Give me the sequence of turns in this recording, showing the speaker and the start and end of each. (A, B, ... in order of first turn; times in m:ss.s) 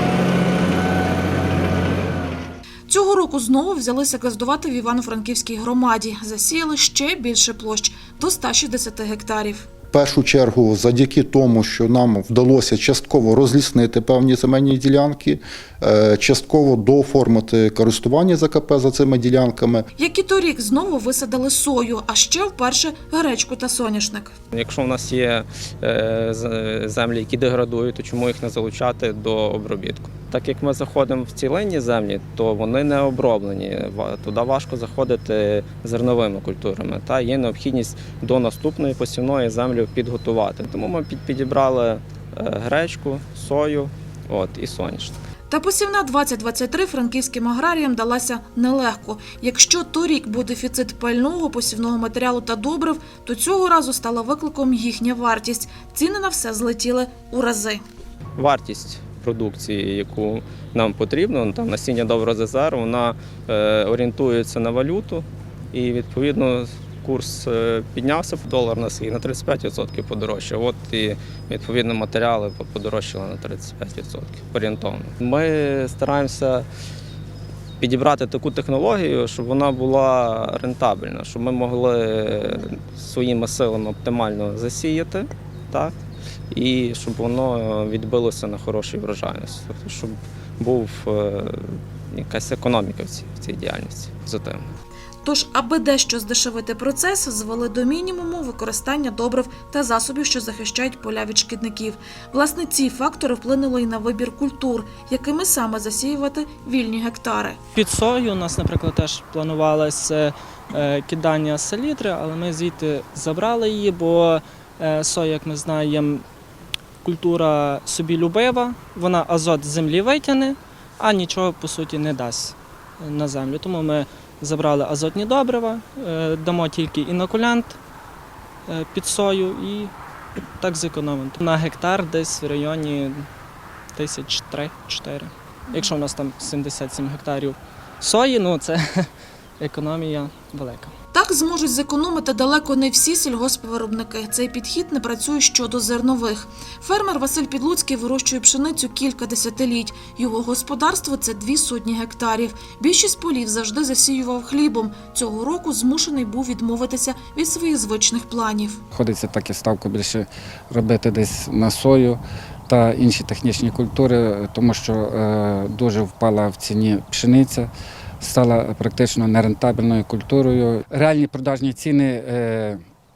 0:02.9-0:09.7 A
0:09.9-0:19.8 B
0:20.0-0:24.3 A
0:24.5-0:45.2 C
0:45.5-0:57.8 A
0:58.4-1:16.7 C
1:17.8-1:26.0 C
1:26.5-1:34.7 C
1:35.2-1:47.6 A
1:47.7-1:56.2 D
1:57.0-2:07.8 D
2:08.7-2:13.3 D
2:13.9-2:20.9 D
2:21.1-2:38.8 A
2:38.9-2:52.8 E